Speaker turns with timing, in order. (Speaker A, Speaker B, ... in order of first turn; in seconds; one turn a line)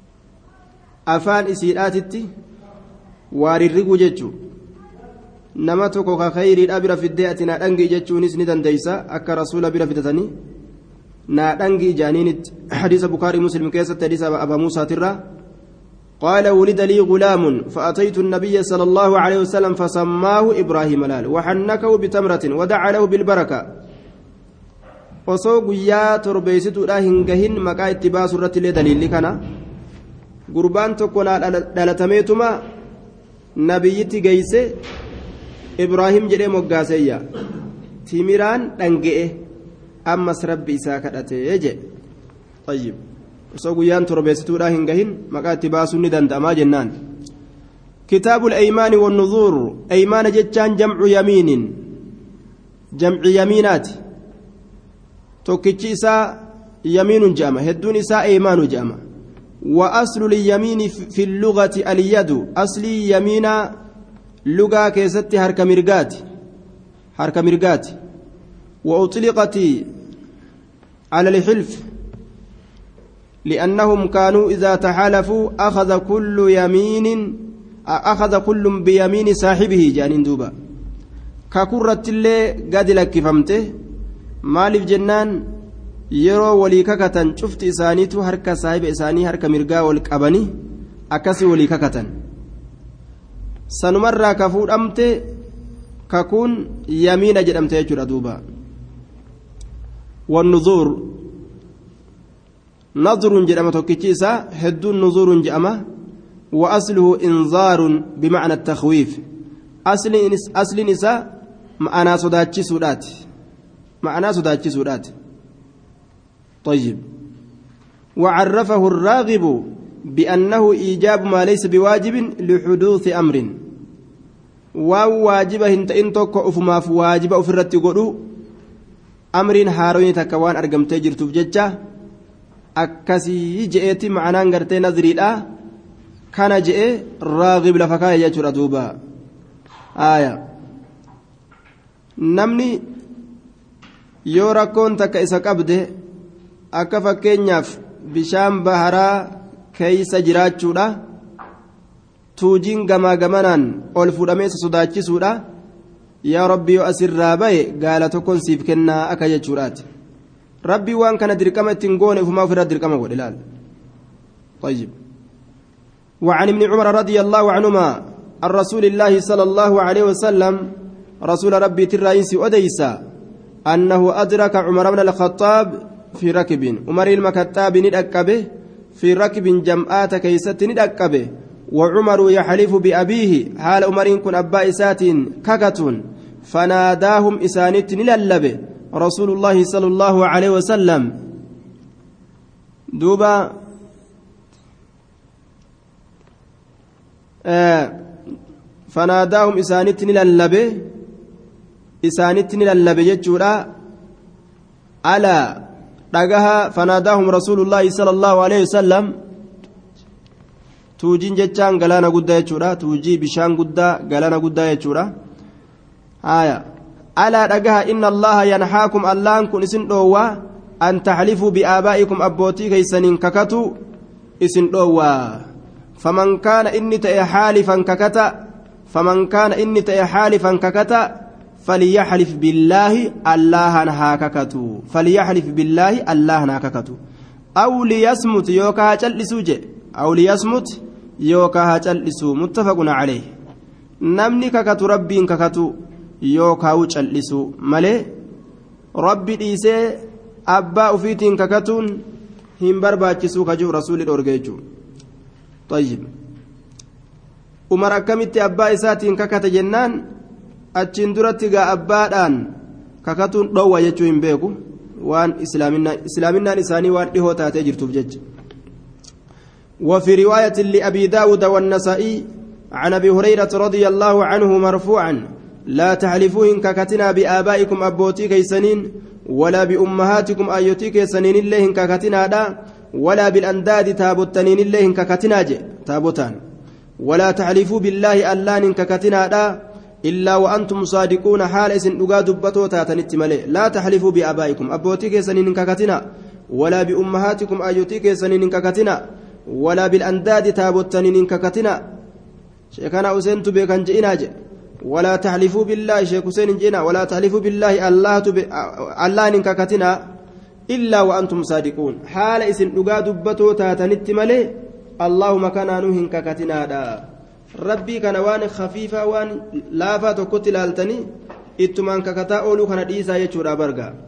Speaker A: 1.1-2.3
Speaker A: 3.3-4.3
Speaker A: 5.6-10.3
Speaker A: 11.3-15.2
Speaker A: 16.2-23.6
Speaker A: 25.3-29.4
Speaker A: 30.5-32.6
Speaker A: 33.6-34.7
Speaker A: 35.8-37.2
Speaker A: 38.1-39.4
Speaker A: 40.1-41.8
Speaker A: 42.7-43.0
Speaker A: 43.5-46.9
Speaker A: 48.1-51.7
Speaker A: 53.0-54.0
Speaker A: 55.4-59.0
Speaker A: 59.6-63.7
Speaker A: 64.5-66.2
Speaker A: 67.2-67.9
Speaker A: 68.8-69.8
Speaker A: 71.1-71.8
Speaker A: 73.4-80.5
Speaker A: 81.5-83.7
Speaker A: 84.4-85.4
Speaker A: 86.1-90.5
Speaker A: 91.1-92.1
Speaker A: 93.7-95.2
Speaker A: 96.1-98.4
Speaker A: 100.3-101.2
Speaker A: 103.0-105.8
Speaker A: 106.5-109.2
Speaker A: 109.8-111.2
Speaker A: 111.8-113.2
Speaker A: 114.0-115.1
Speaker A: 116.6-117.0
Speaker A: 118.2-123.5
Speaker A: 124.8-128.2
Speaker A: 129.3-131.7
Speaker A: 132.8-135.4
Speaker A: 136.3-138.9
Speaker A: 140.0-140.4
Speaker A: 142.2-142.8
Speaker A: 144.3-145.9
Speaker A: 146.7-151.0
Speaker A: 152.4-155.4
Speaker A: 156.2-159.8
Speaker A: 160.7-163.3
Speaker A: 164.6-164.9
Speaker A: 166.2-170.7
Speaker A: 171.2-173.0
Speaker A: 173.7-178.4
Speaker A: 178.9-191.1
Speaker A: 192.9-193.5
Speaker A: 197.5-197.9
Speaker A: 198.9-200.8
Speaker A: 202.0-203.7
Speaker A: 205.0-205.6
Speaker A: 206.1-209.1
Speaker A: 211.0-215.1
Speaker A: 216.2-216.6
Speaker A: 217.2-223.7
Speaker A: 224.4-225.4
Speaker A: 226.0-228.3
Speaker A: 228.9-231.1
Speaker A: 231.6-237.0
Speaker A: 237.6-243.3
Speaker A: 244.0-245.7
Speaker A: 246.2-248.0
Speaker A: 249.0-250.0
Speaker A: 250.5-252.0
Speaker A: 252.6-254.6
Speaker A: 255.7-256.1
Speaker A: 257.7-260.0
Speaker A: 260.8-262.4
Speaker A: 263.0-268.2
Speaker A: 269.8-286.4
Speaker A: 287.0-301.8
Speaker A: 302.7-304.3
Speaker A: 304.8-310.0
Speaker A: 310.7-317.0
Speaker A: 317.6-321.0
Speaker A: 321.6-323.9